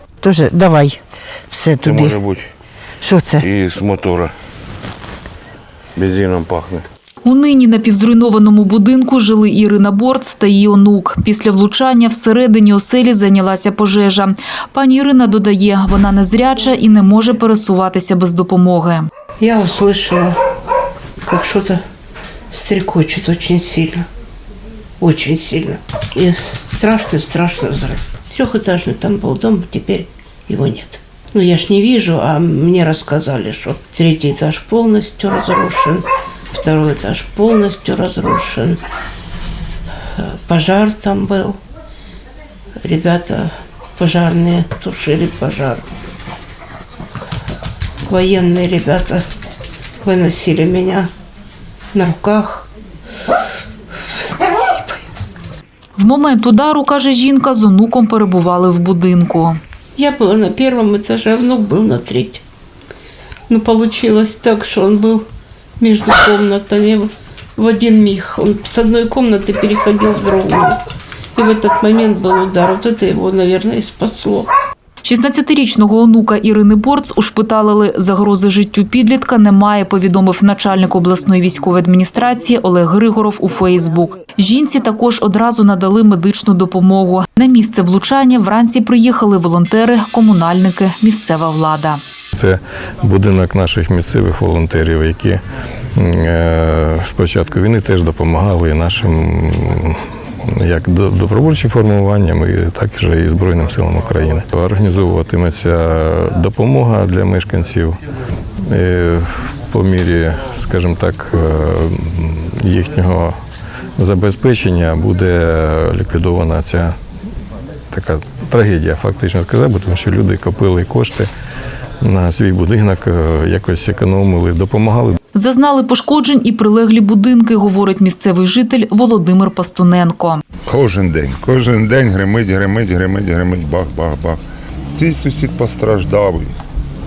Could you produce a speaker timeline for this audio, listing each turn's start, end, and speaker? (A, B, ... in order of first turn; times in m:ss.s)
0:00.2-0:02.2 A
0:01.8-0:02.5 B
0:03.0-0:03.5 A
0:03.4-0:04.3 B
0:06.0-0:06.8 B
0:07.2-0:19.1 C
0:19.4-0:20.4 D
0:21.2-0:21.8 D
0:22.5-0:24.0 D
0:25.0-0:38.8 D
0:40.2-0:41.6 D
0:42.8-0:45.9 D
0:48.0-0:49.2 D
0:50.0-0:51.1 D
0:51.9-0:52.7 D
0:53.9-0:55.1 D
0:56.0-0:59.6 C
1:00.0-1:02.4 D
1:03.5-1:05.2 D
1:05.8-1:10.8 D
1:11.3-1:14.5 D
1:15.0-1:32.0 C
1:32.3-1:35.4 E
1:36.0-1:48.0 E
1:48.7-1:53.3 E
1:54.0-1:57.0 E
1:57.9-2:01.3 E
2:02.0-2:05.2 E
2:05.3-2:10.4 C
2:10.7-2:16.5 F